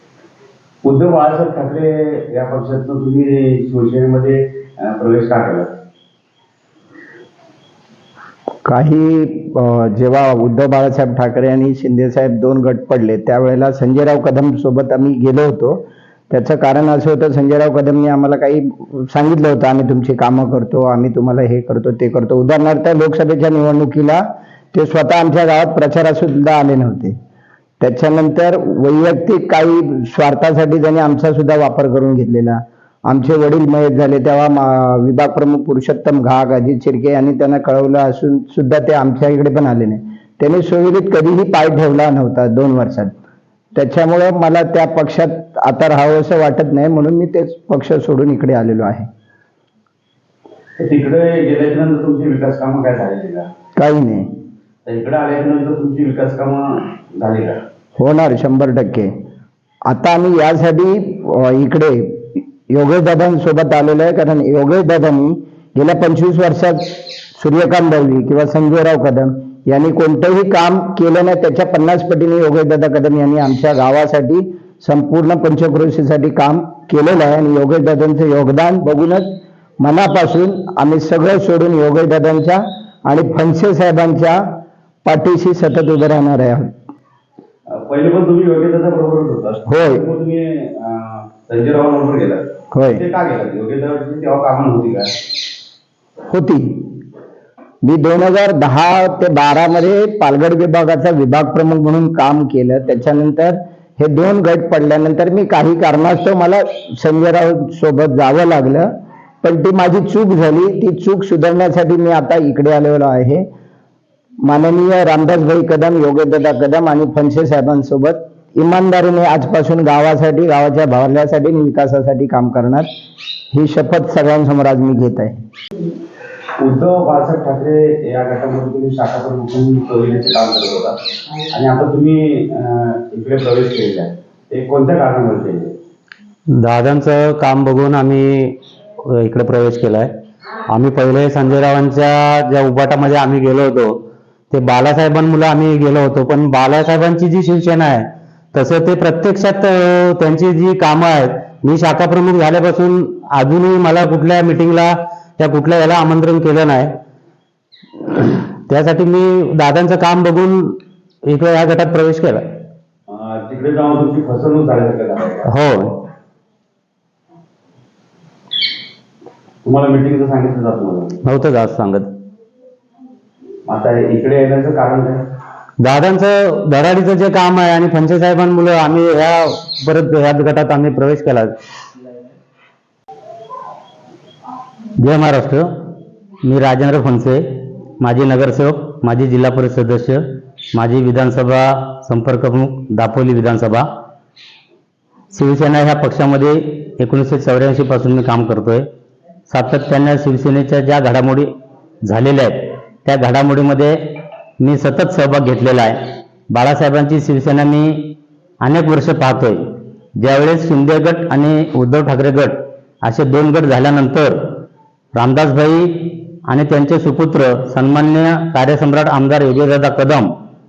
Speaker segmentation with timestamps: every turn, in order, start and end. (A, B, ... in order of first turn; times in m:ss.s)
0:00.8-0:05.7 A
0:08.6-0:27.2 B
0:27.8-0:43.1 B
0:43.8-0:49.1 B
0:50.8-0:53.5 A
0:53.8-0:54.3 B
0:54.9-0:57.6 A
0:58.0-0:59.1 B
0:59.9-1:24.4 B
1:25.0-1:26.7 B
1:27.7-1:35.1 A
1:29.7-1:30.0 B
1:32.7-1:33.0 B
1:36.3-1:36.8 B
1:37.8-1:48.9 B
1:49.4-1:53.5 B
1:54.4-2:02.9 B
2:03.5-2:05.4 B
2:06.6-2:11.0 A
2:11.5-2:15.7 A
2:16.5-2:20.1 C
2:20.7-2:37.0 C
2:38.1-2:42.5 C
2:43.1-2:45.5 A
2:45.5-2:46.0 C
2:49.6-2:51.2 A
2:51.2-2:52.1 C
2:53.7-2:55.2 A
2:55.8-3:01.5 C
3:05.0-3:05.9 C
3:06.4-3:13.9 C
3:15.3-3:18.9 C
3:19.5-3:21.5 C
3:22.0-3:26.0 C
3:26.5-3:34.6 C
3:35.2-3:40.3 C